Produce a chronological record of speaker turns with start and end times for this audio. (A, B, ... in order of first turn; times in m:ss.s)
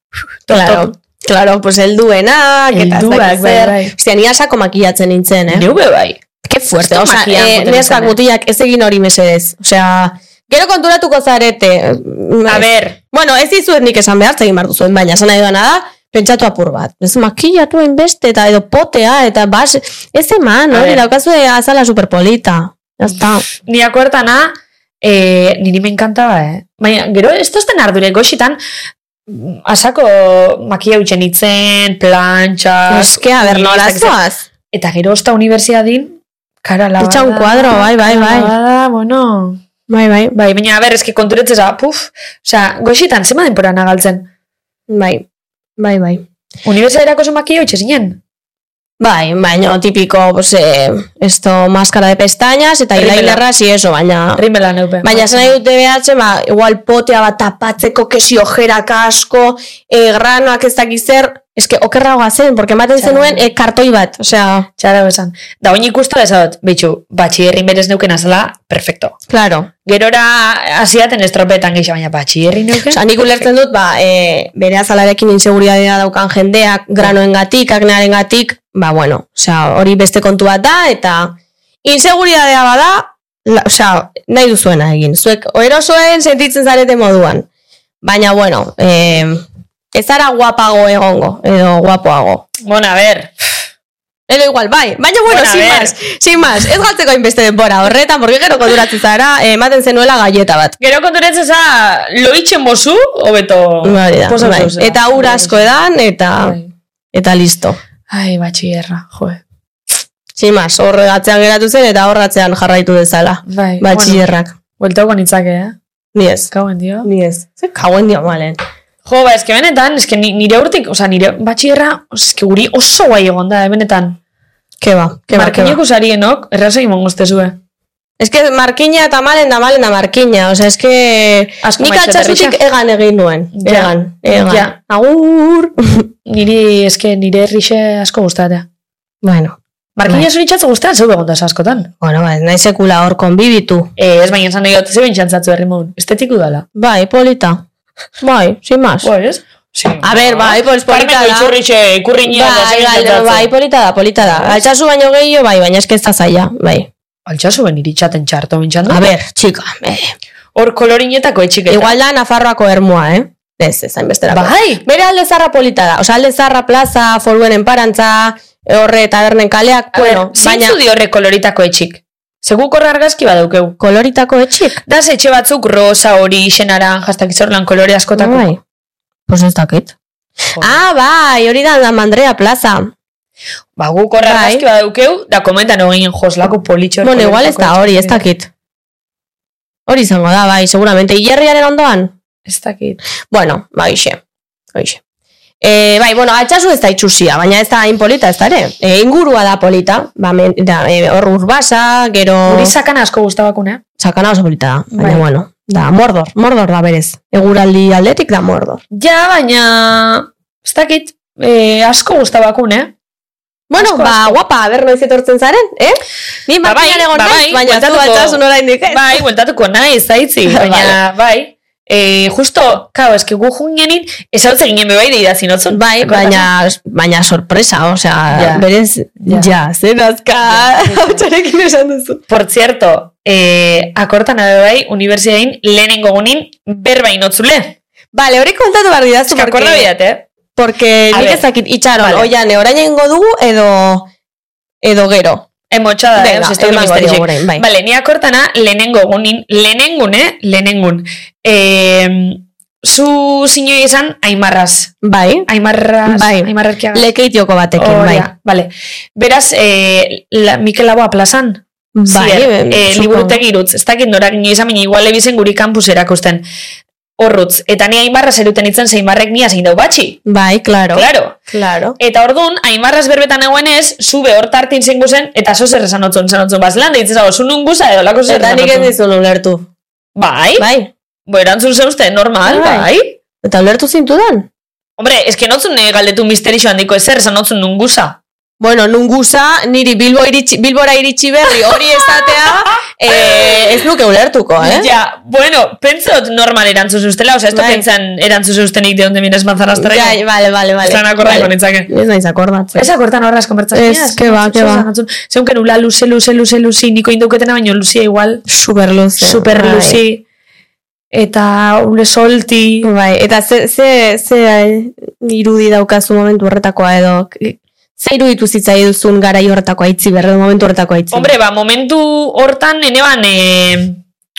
0:00.5-0:00.9 A
0:00.5-0:05.7 B
0:02.7-0:04.0 A
0:05.5-0:06.2 A
0:06.4-0:23.4 B
0:06.7-0:08.2 A
0:12.5-0:13.0 A
0:20.7-0:21.0 A
0:23.5-0:28.6 A
0:29.3-0:34.2 A
0:32.9-0:34.5 B
0:34.7-0:39.6 A
0:37.0-0:38.5 B
0:39.9-0:40.4 B
0:40.3-0:44.3 A
0:44.9-0:45.3 B
0:45.8-0:46.2 B
0:46.6-0:48.2 A
0:49.0-0:54.4 B
0:53.0-0:53.4 A
0:54.4-0:55.6 A
0:55.0-1:04.7 B
1:03.0-1:03.4 A
1:04.8-1:09.2 A
1:09.3-1:09.7 B
1:09.9-1:13.0 A
1:12.9-1:27.5 B
1:28.0-1:32.4 B
1:32.6-1:33.3 A
1:34.3-1:40.8 B
1:35.3-1:36.0 A
1:40.8-1:45.7 A
1:43.8-1:46.6 B
1:46.4-1:46.7 A
1:47.1-1:47.8 B
1:48.1-1:49.4 A
1:50.4-1:54.6 B
1:53.5-1:54.2 A
1:54.8-1:55.8 A
1:56.1-1:56.5 B
1:56.5-1:57.1 A
1:57.0-1:58.6 B
1:59.1-2:04.2 A
2:04.8-2:05.8 B
2:05.3-2:07.6 A
2:08.2-2:16.1 B
2:11.6-2:12.6 A
2:13.5-2:14.8 A
2:16.3-2:18.7 A
2:19.2-2:19.6 B
2:20.0-2:21.9 A
2:22.0-2:23.9 B
2:24.0-2:26.6 A
2:26.8-2:27.6 B
2:28.2-2:29.1 B
2:29.0-2:33.5 A
2:30.0-2:31.5 B
2:32.3-2:36.9 B
2:34.2-2:34.6 A
2:37.3-2:39.0 A
2:38.9-2:40.2 B
2:40.6-2:42.0 A
2:41.7-2:50.8 B
2:44.3-2:44.8 A
2:49.9-2:53.8 A
2:53.8-2:54.8 B
2:54.9-2:58.5 A
2:58.2-2:58.6 B
2:59.3-3:00.0 B
3:00.6-3:00.8 A
3:00.6-3:02.9 B
3:03.8-3:08.2 A
3:04.2-3:04.6 B
3:07.0-3:08.5 B
3:09.9-3:12.1 B
3:12.5-3:13.0 A
3:13.3-3:14.2 B
3:14.7-3:15.0 B
3:15.6-3:22.7 B
3:22.5-3:23.8 A
3:24.0-3:28.8 B
3:24.9-3:25.2 A
3:28.9-3:32.9 A
3:33.7-3:39.2 B
3:33.8-3:34.4 A
3:36.6-3:46.5 A
3:40.5-3:41.0 B
3:45.7-3:52.2 B
3:48.3-3:48.6 A
3:49.2-3:49.5 A
3:50.4-3:51.3 A
3:52.3-3:57.8 A
3:58.1-3:59.9 B
3:59.3-4:00.3 A
4:00.6-4:04.1 B
4:01.1-4:01.4 A
4:02.0-4:02.3 A
4:04.8-4:05.5 B
4:05.7-4:14.9 A
4:06.2-4:07.6 B
4:15.0-4:15.5 B
4:15.5-4:17.1 A
4:16.1-4:18.3 B
4:17.8-4:26.4 A
4:22.0-4:23.4 B
4:27.2-4:30.2 A
4:30.3-4:32.0 B
4:30.9-4:31.4 A
4:32.0-4:38.9 A
4:38.3-4:39.7 B
4:40.2-4:40.7 A
4:40.6-4:40.9 B
4:41.3-4:43.2 A
4:42.4-4:42.9 B
4:43.4-4:44.5 B
4:45.0-4:48.2 A
4:48.6-4:54.9 B
4:52.2-4:53.5 A
4:54.6-5:00.2 A
4:57.5-4:57.8 B
4:59.8-5:02.9 B
5:00.8-5:01.9 A
5:02.8-5:08.4 A
5:03.7-5:04.9 B
5:08.5-5:10.0 B
5:09.2-5:10.2 A
5:11.1-5:12.9 A
5:12.8-5:21.3 B
5:21.1-5:24.0 A